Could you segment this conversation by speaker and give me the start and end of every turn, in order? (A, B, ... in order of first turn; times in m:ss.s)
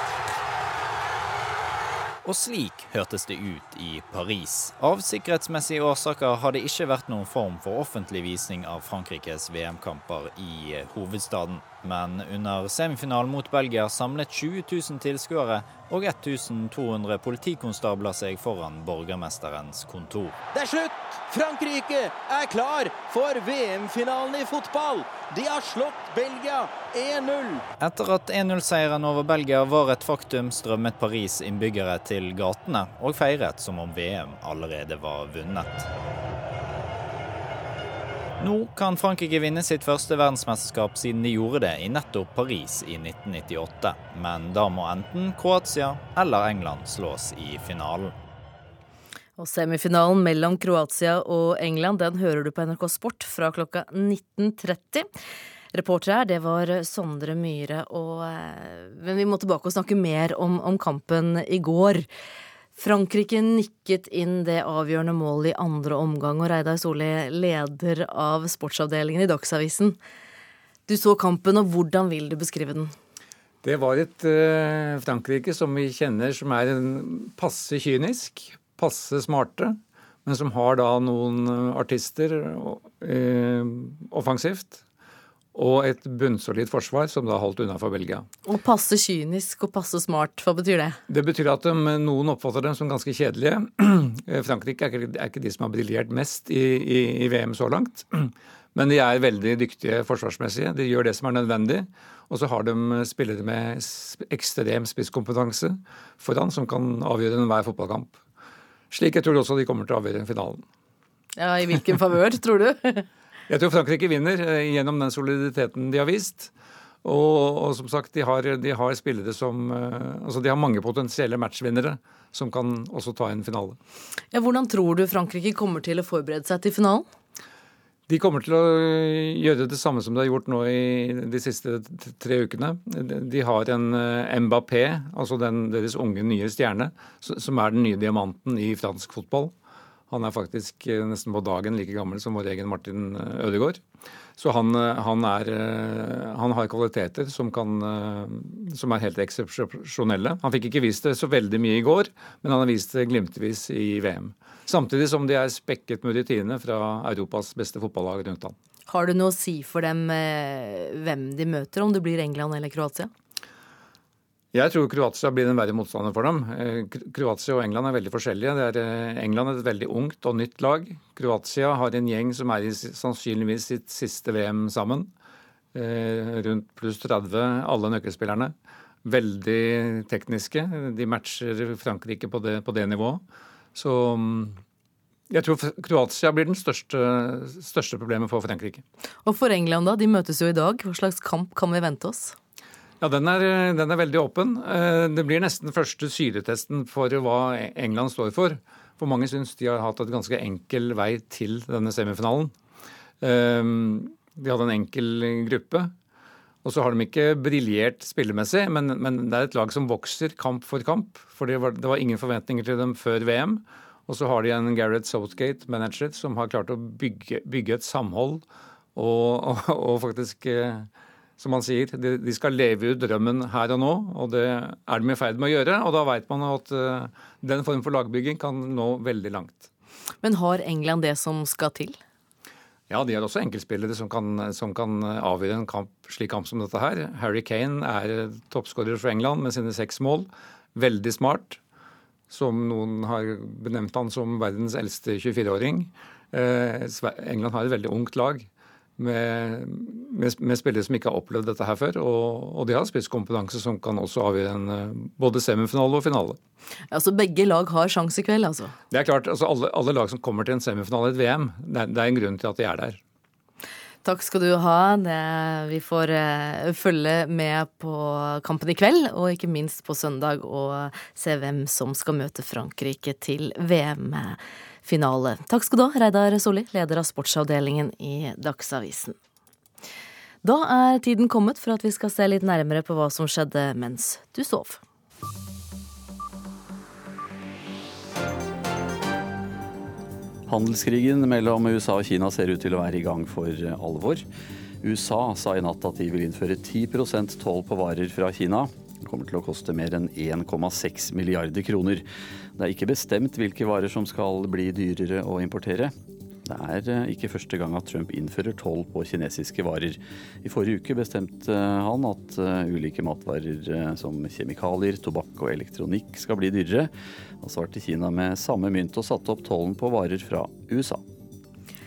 0:02.2-0:20.4 A
0:20.5-0:27.6 B
0:27.8-0:35.9 A
0:38.4-0:48.1 A
0:49.4-0:55.1 C
0:55.7-1:02.1 C
1:02.8-1:10.0 C
1:10.9-1:12.9 C
1:13.6-1:24.8 D
1:25.5-1:28.2 D
1:28.4-1:31.0 C
1:31.1-1:48.2 D
1:48.9-1:50.6 D
1:51.4-1:53.0 C
1:53.5-1:56.5 D
1:57.0-2:03.8 D
2:04.3-2:07.1 C
2:08.1-2:19.5 D
2:20.1-2:23.8 D
2:24.4-2:38.5 D
2:38.9-2:43.1 C
2:44.5-2:55.1 D
2:55.7-3:03.2 D
3:03.7-3:04.6 D
3:05.3-3:08.8 D
3:09.2-3:12.4 C
3:13.0-3:22.5 D
3:23.2-3:25.9 D
3:26.6-3:49.7 D
3:50.2-3:52.0 C
3:52.9-4:01.6 D
4:02.3-4:16.4 D
4:16.9-4:18.7 C
4:18.9-4:23.0 D
4:24.0-4:39.2 C
4:40.4-4:44.8 C
4:50.5-4:54.2 E
4:54.8-5:02.0 E
5:02.6-5:05.9 E
5:06.4-5:21.0 E